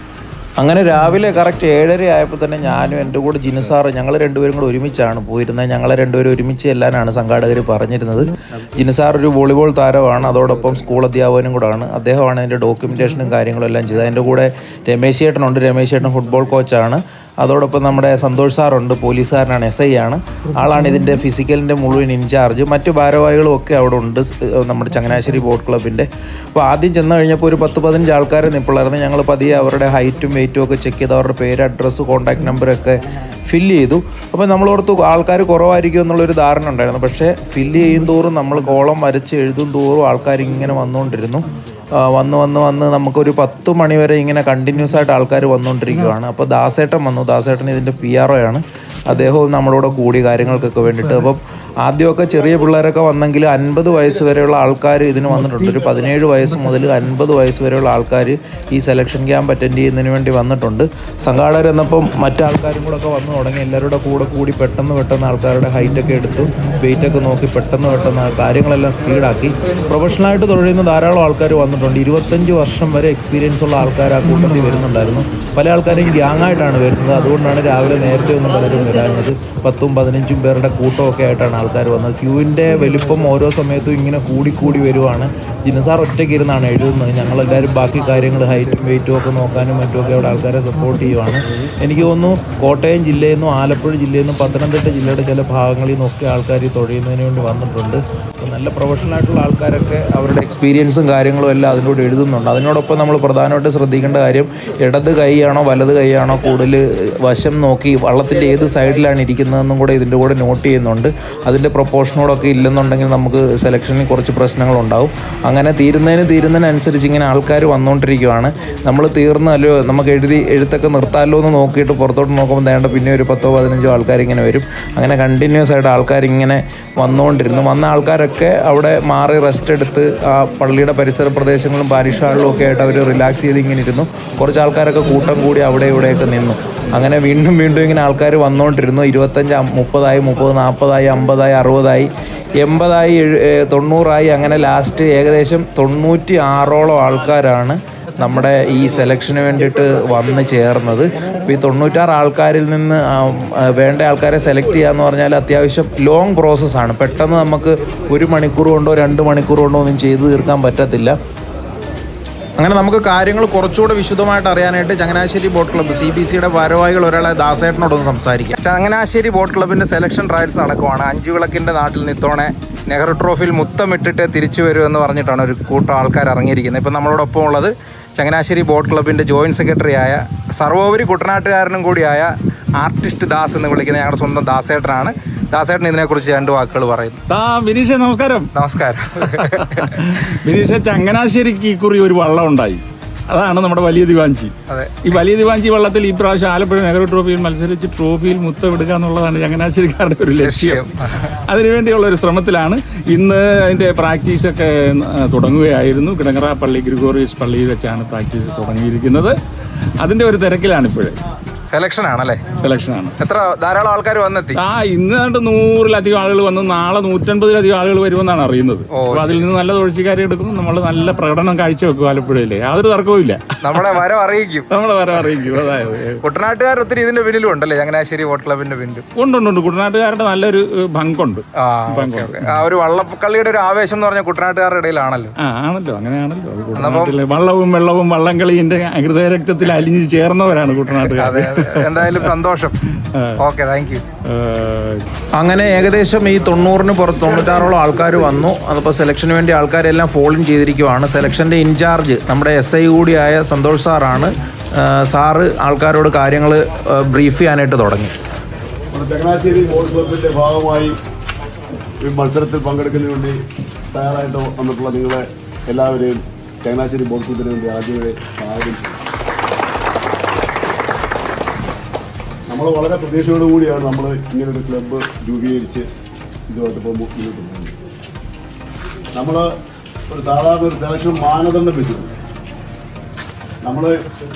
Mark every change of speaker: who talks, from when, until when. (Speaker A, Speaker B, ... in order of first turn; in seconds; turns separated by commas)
Speaker A: 0.6-161.1, Speaker A: 162.6-168.6, Speaker B: 168.6-187.2, Speaker C: 187.3-188.5, Speaker B: 188.5-189.8, Speaker C: 189.4-194.5, Speaker B: 194.7-195.0, Speaker C: 195.0-209.3, Speaker B: 200.4-201.2, Speaker C: 210.0-211.2, Speaker B: 211.7-212.4, Speaker C: 212.6-213.1, Speaker B: 213.2-214.6, Speaker C: 214.6-223.9, Speaker B: 218.9-219.5, Speaker B: 223.6-224.7, Speaker C: 224.7-226.2, Speaker B: 226.2-229.0, Speaker C: 229.2-232.6, Speaker B: 231.6-235.3, Speaker C: 235.4-242.2, Speaker B: 236.8-237.2, Speaker B: 241.2-242.7, Speaker B: 243.4-244.0, Speaker C: 244.3-245.0, Speaker A: 245.3-258.1, Speaker D: 258.9-260.9, Speaker D: 262.0-263.4, Speaker D: 263.9-269.0, Speaker D: 272.5-275.9, Speaker D: 276.5-277.8, Speaker D: 279.1-279.5, Speaker D: 280.1-282.1, Speaker D: 283.6-284.0